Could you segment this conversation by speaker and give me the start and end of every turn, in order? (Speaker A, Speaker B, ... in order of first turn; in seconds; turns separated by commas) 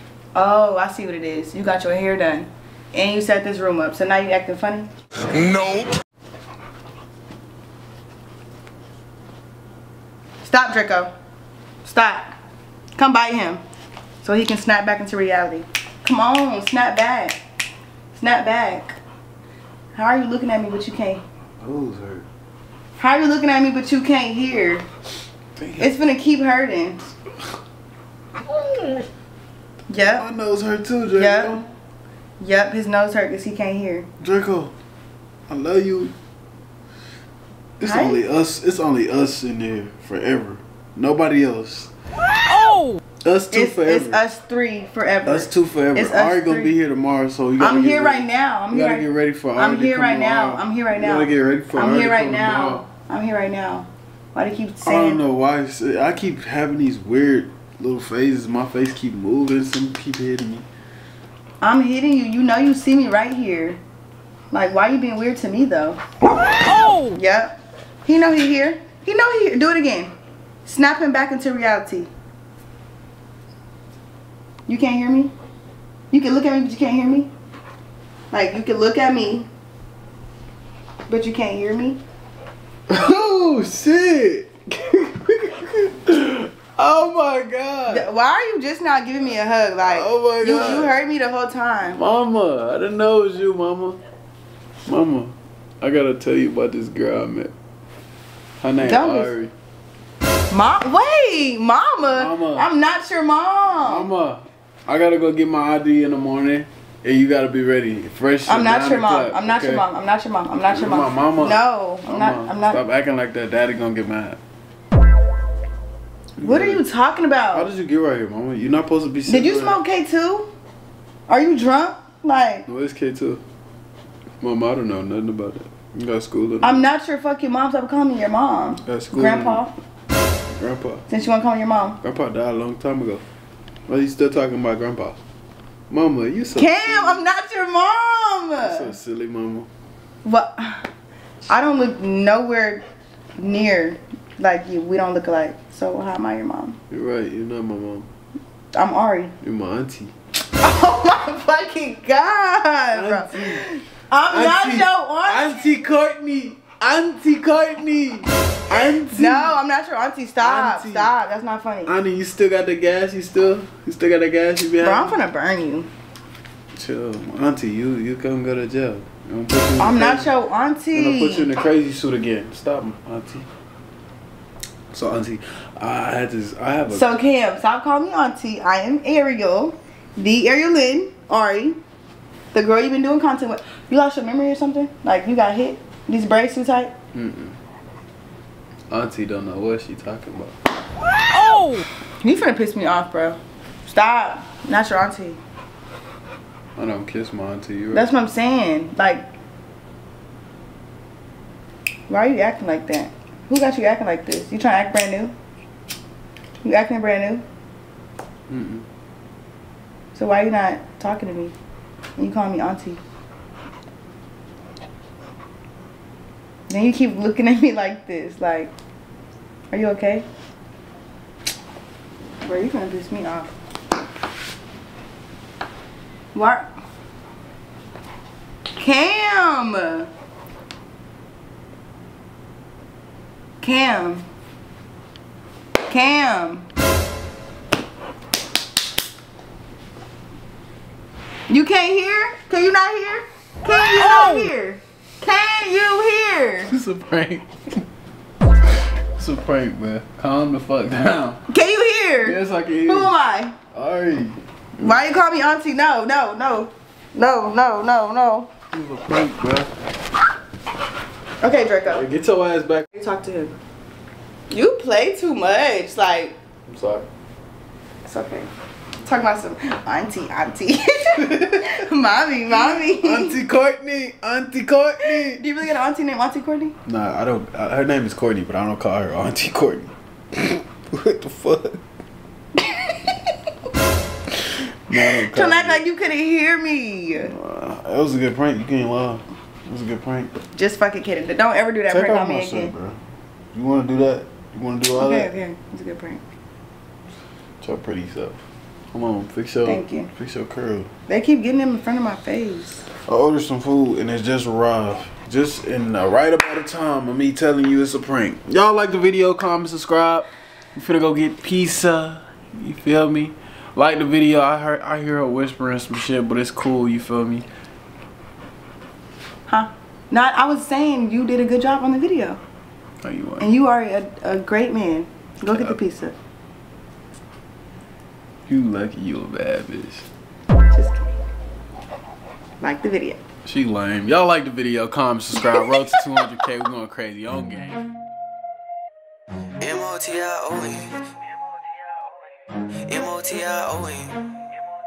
Speaker A: 0.3-4.9, Speaker A: 10.4-11.1, Speaker A: 11.8-12.3, Speaker A: 13.0-13.6, Speaker A: 14.2-17.4, Speaker A: 18.1-19.0, Speaker A: 19.9-21.2, Speaker B: 21.6-22.2, Speaker A: 23.0-24.8, Speaker B: 25.6-25.9, Speaker A: 25.8-27.1, Speaker A: 29.9-30.3, Speaker B: 30.1-31.6, Speaker A: 31.1-31.6, Speaker A: 32.4-34.1, Speaker B: 34.2-34.7, Speaker B: 35.5-36.1, Speaker B: 37.8-41.9, Speaker A: 37.8-38.2, Speaker B: 43.2-44.2, Speaker A: 43.5-46.7, Speaker B: 45.2-52.8, Speaker A: 47.6-55.2, Speaker B: 54.8-60.6, Speaker A: 61.6-63.8, Speaker A: 64.5-66.0, Speaker A: 67.1-70.1, Speaker A: 70.6-72.1, Speaker A: 74.7-75.3, Speaker A: 76.1-77.3, Speaker A: 78.3-79.5, Speaker A: 81.1-82.0, Speaker B: 82.9-88.1, Speaker A: 87.9-92.0, Speaker B: 89.8-90.9, Speaker B: 91.9-94.0, Speaker B: 94.8-97.5, Speaker B: 98.6-99.5, Speaker A: 98.8-99.3, Speaker A: 100.5-104.1, Speaker B: 102.1-102.7, Speaker B: 103.8-109.8, Speaker A: 108.5-112.8, Speaker B: 110.7-114.4, Speaker B: 116.4-116.8, Speaker A: 116.4-117.7, Speaker B: 117.5-119.8, Speaker A: 119.3-120.5, Speaker A: 121.3-122.7, Speaker B: 122.7-123.4, Speaker B: 124.4-126.9, Speaker A: 126.6-129.7, Speaker B: 128.8-129.6, Speaker B: 130.5-131.0, Speaker A: 131.1-132.0, Speaker B: 132.0-133.2, Speaker B: 133.9-135.2, Speaker B: 135.9-137.2, Speaker A: 136.5-138.9, Speaker B: 138.6-139.7, Speaker A: 140.2-140.9, Speaker A: 141.5-142.8, Speaker A: 143.4-146.8, Speaker B: 146.9-148.1, Speaker A: 148.7-149.3, Speaker B: 149.4-150.1, Speaker A: 150.6-155.7, Speaker B: 152.9-153.7, Speaker B: 154.3-159.6, Speaker A: 159.1-161.9, Speaker B: 160.4-161.1, Speaker B: 161.8-165.2, Speaker A: 164.8-165.9, Speaker B: 166.7-170.3, Speaker A: 169.8-171.5, Speaker B: 170.9-173.5, Speaker B: 174.9-177.1, Speaker A: 176.9-181.8, Speaker A: 182.5-186.9, Speaker B: 187.1-187.6, Speaker B: 188.9-190.6, Speaker A: 192.2-195.4, Speaker B: 196.8-198.1, Speaker A: 197.9-199.3, Speaker A: 202.1-205.3, Speaker A: 206.6-207.4, Speaker B: 208.5-208.8, Speaker A: 210.1-211.5, Speaker A: 212.2-213.0, Speaker A: 216.7-218.7, Speaker A: 219.7-220.2, Speaker A: 222.4-223.5, Speaker A: 226.3-226.7, Speaker A: 228.8-230.1, Speaker A: 233.6-234.2, Speaker A: 235.9-236.7, Speaker A: 241.5-246.7, Speaker B: 246.7-247.5, Speaker B: 249.2-251.4, Speaker A: 251.5-253.6, Speaker B: 252.2-253.2, Speaker B: 253.7-255.0, Speaker A: 254.8-258.5, Speaker B: 258.7-259.7, Speaker A: 261.4-262.0, Speaker B: 261.9-262.9, Speaker A: 262.9-263.5, Speaker A: 264.5-266.4, Speaker B: 266.7-267.1, Speaker A: 268.0-268.5, Speaker A: 269.0-273.4, Speaker B: 272.5-275.4, Speaker A: 275.0-276.8, Speaker B: 276.9-281.8, Speaker A: 282.6-283.1, Speaker B: 284.9-285.8, Speaker A: 285.3-287.3, Speaker B: 287.2-290.3, Speaker A: 290.5-292.7, Speaker B: 291.9-293.0, Speaker B: 293.5-295.3, Speaker A: 295.0-296.2, Speaker B: 297.6-298.4, Speaker B: 298.9-300.9, Speaker A: 299.6-300.1, Speaker A: 301.1-302.9, Speaker B: 303.1-317.4, Speaker A: 319.5-322.4, Speaker B: 323.0-323.5, Speaker A: 323.4-326.1, Speaker B: 325.5-325.8, Speaker B: 328.5-330.1, Speaker A: 330.7-331.1, Speaker A: 332.6-333.2, Speaker B: 333.4-337.9, Speaker C: 339.6-340.9, Speaker C: 342.9-344.2